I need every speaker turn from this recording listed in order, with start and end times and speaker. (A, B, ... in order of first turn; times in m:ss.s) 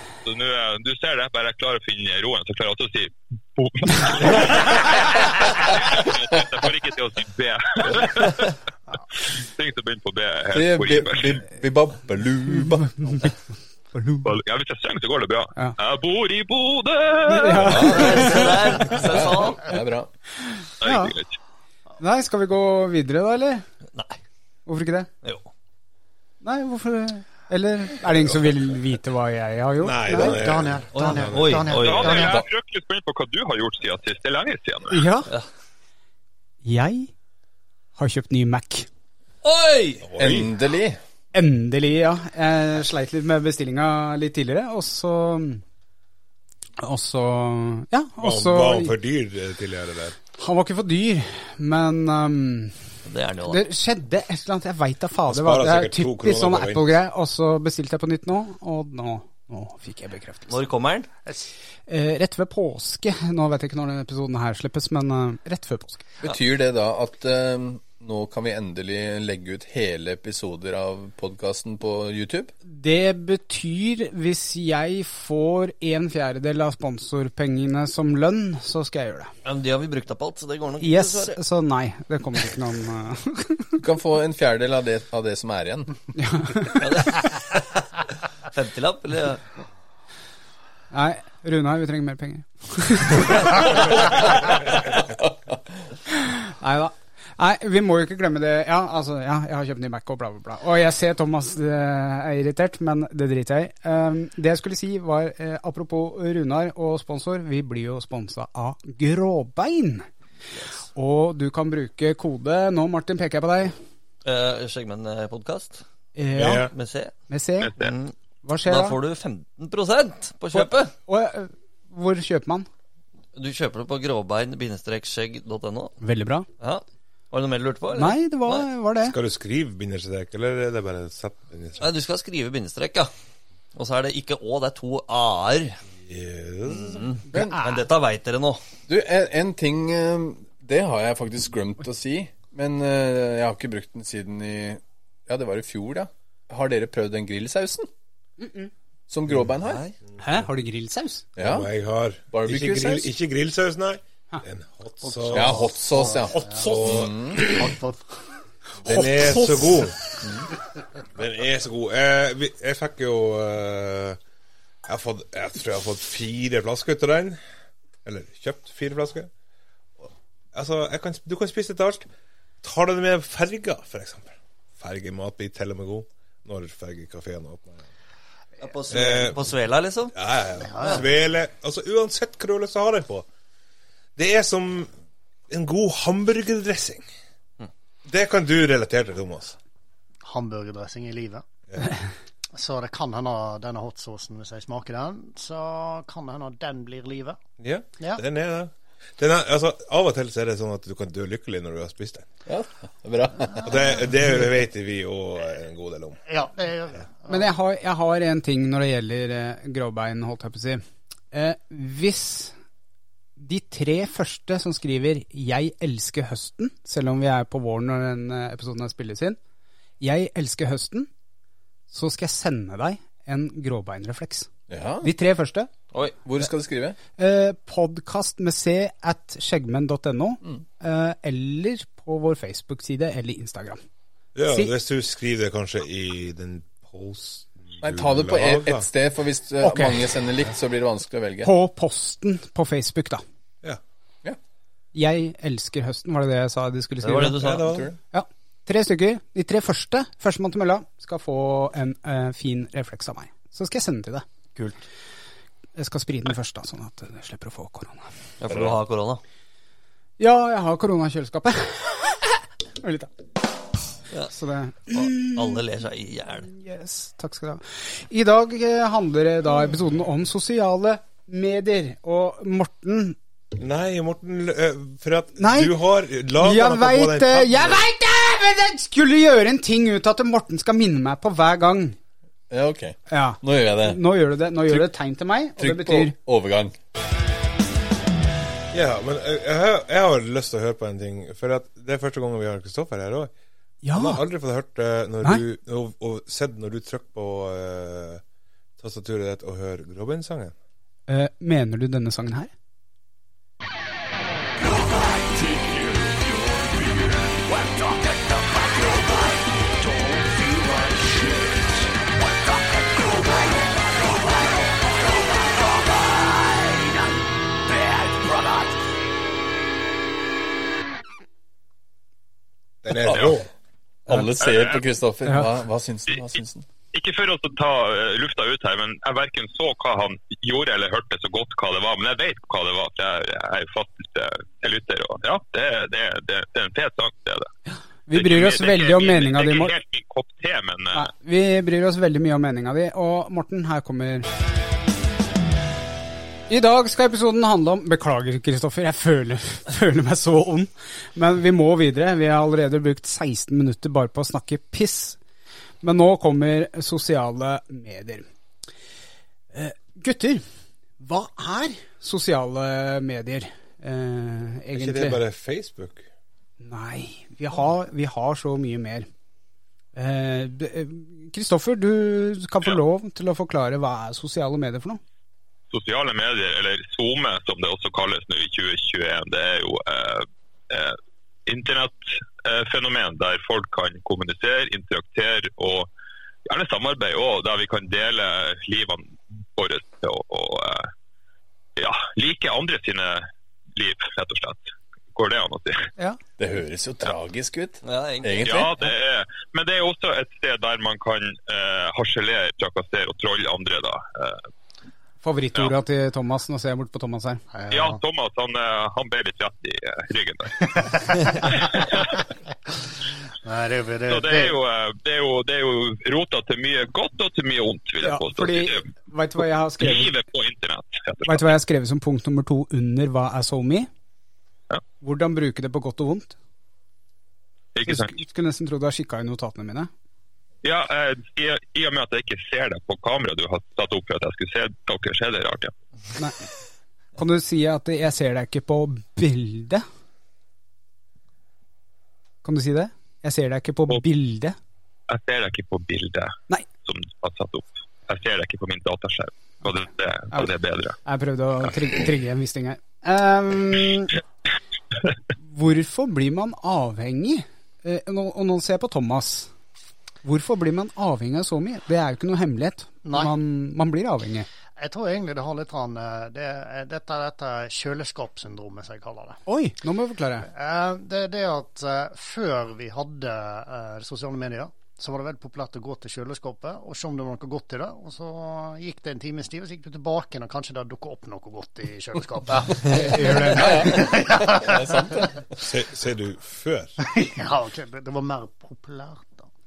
0:00.2-0:08.5 A
0:09.2-0:11.4 A
0:10.5-0:13.1 B
0:12.5-0:13.4 C
0:13.9-0:14.3 C
0:14.2-0:17.9 A
0:17.3-0:19.0 C
0:17.6-0:18.3 B
0:17.8-0:19.8 D
0:19.0-0:20.1 B
0:20.4-0:21.2 C
0:20.8-0:21.4 A
0:22.0-0:23.6 C
0:23.9-0:24.2 D
0:24.7-0:25.1 C
0:25.2-0:25.5 D
0:26.4-0:30.4 C
0:29.8-0:31.7 E
0:30.1-0:32.4 F
0:30.9-0:32.4 D
0:31.7-0:35.1 A
0:34.9-0:35.3 C
0:36.6-0:37.1 C
0:38.0-0:38.9 C
0:39.4-0:40.1 D
0:40.0-0:40.5 E
0:40.2-0:41.0 B
0:41.3-0:45.6 C
0:46.8-0:48.9 C
0:48.2-0:50.2 E
0:50.4-0:52.9 C
0:53.0-0:53.7 D
0:53.5-1:00.6 C
0:55.3-0:57.0 E
1:00.5-1:01.1 D
1:01.9-1:06.0 C
1:06.2-1:12.5 B
1:12.6-1:19.3 C
1:19.4-1:21.4 D
1:20.8-1:23.8 C
1:23.8-1:26.0 B
1:26.2-1:26.8 C
1:26.8-1:27.6 D
1:28.5-1:29.4 D
1:30.9-1:34.2 C
1:35.0-1:35.8 B
1:36.1-1:50.1 C
1:51.0-1:53.8 C
1:54.2-1:55.8 D
1:56.2-1:56.7 C
1:56.3-1:56.7 E
1:56.7-1:57.1 D
1:57.3-1:57.7 C
1:57.6-1:58.0 A
1:57.8-2:00.9 D
1:58.4-1:59.0 C
2:00.5-2:02.7 C
2:03.4-2:06.0 D
2:06.0-2:06.5 C
2:06.6-2:08.7 D
2:08.0-2:09.2 C
2:09.0-2:11.8 E
2:11.8-2:13.1 D
2:13.7-2:15.8 D
2:16.0-2:17.1 E
2:16.7-2:18.6 D
2:17.3-2:17.8 C
2:17.3-2:17.6 B
2:18.9-2:27.9 B
2:28.4-2:28.7 C
2:29.1-2:29.8 B
2:29.6-2:30.0 D
2:30.2-2:30.4 E
2:30.2-2:31.2 C
2:31.4-2:31.7 B
2:31.4-2:37.2 E
2:32.3-2:33.1 B
2:35.0-2:38.1 F
2:35.3-2:37.4 B
2:38.8-2:40.0 E
2:38.8-2:39.9 C
2:41.2-2:44.2 E
2:44.9-2:47.4 E
2:48.0-2:49.3 E
2:50.0-2:52.1 E
2:52.6-2:57.9 E
2:58.6-3:00.1 D
2:58.9-2:59.4 E
3:00.1-3:03.3 E
3:00.7-3:01.1 F
3:04.2-3:04.9 E
3:05.5-3:07.1 E
3:08.1-3:09.6 E
3:10.2-3:11.4 F
3:11.7-3:12.0 E
3:12.5-3:17.4 F
3:17.6-3:22.3 E
3:22.5-3:23.8 B
3:23.5-3:23.9 F
3:23.6-3:26.2 E
3:26.3-3:27.5 F
3:27.3-3:32.6 C
3:33.4-3:39.4 C
3:40.0-3:41.1 C
3:41.9-3:44.5 C
3:44.7-3:45.1 B
3:45.0-3:45.8 C
3:45.9-3:47.0 B
3:47.2-3:53.8 C
3:54.4-3:58.9 E
3:57.8-4:01.5 B
3:59.6-4:00.0 C
4:01.4-4:03.2 C
4:04.9-4:07.4 C
4:07.0-4:07.9 D
4:07.4-4:07.9 E
4:07.6-4:08.0 B
4:08.1-4:14.3 C
4:15.8-4:18.1 C
4:18.4-4:19.2 D
4:18.5-4:18.8 B
4:20.2-4:23.1 C
4:24.3-4:25.6 C
4:24.9-4:26.5 D
4:26.4-4:33.2 C
4:33.6-4:37.8 E
4:35.4-4:35.7 C
4:36.4-4:42.0 C
4:42.5-4:44.0 B
4:43.1-4:46.2 C
4:44.7-4:44.9 B
4:45.6-4:46.8 B
4:48.7-4:53.3 E
4:53.8-4:54.2 C
4:53.9-4:58.2 E
4:58.8-5:00.5 E
5:01.1-5:02.5 C
5:22.8-5:23.5 E
5:23.0-5:23.4 B
5:24.1-5:26.7 B
5:24.4-5:24.8 A
5:26.1-5:26.4 A
5:26.9-5:37.5 A
5:38.1-5:39.7 C
5:38.1-5:41.1 A
5:40.9-5:44.3 C
5:46.5-5:55.2 C
5:55.8-5:58.3 C
5:59.5-6:00.4 C
6:01.0-6:05.2 C
6:04.7-6:06.1 E
6:06.6-6:09.1 C
6:10.0-6:15.0 C
6:15.7-6:25.9 A
6:26.5-6:30.9 A
6:31.8-6:35.9 A
6:36.4-6:38.9 B
6:37.8-6:38.5 D
6:38.4-6:44.5 A
6:45.2-6:47.4 C
6:47.5-6:48.0 F
6:47.7-6:52.2 A
6:50.7-6:52.2 F
6:53.4-6:54.6 F
6:54.1-6:58.9 A
6:58.0-7:00.1 C
6:59.8-7:01.5 A
7:01.3-7:03.9 C
7:05.0-7:06.4 C
7:07.8-7:08.2 A
7:07.9-7:09.9 C
7:10.6-7:15.7 A
7:17.2-7:19.8 C
7:22.4-7:24.6 C
7:25.1-7:31.0 A
7:31.1-7:34.2 C
7:35.4-7:39.5 C
7:40.2-7:44.5 C
7:43.0-7:43.3 F
7:44.8-7:49.4 F
7:49.5-7:50.5 C
7:50.5-8:05.4 F
8:02.9-8:04.0 C
8:03.5-8:05.4 B
8:05.6-8:07.0 E
8:07.0-8:09.5 F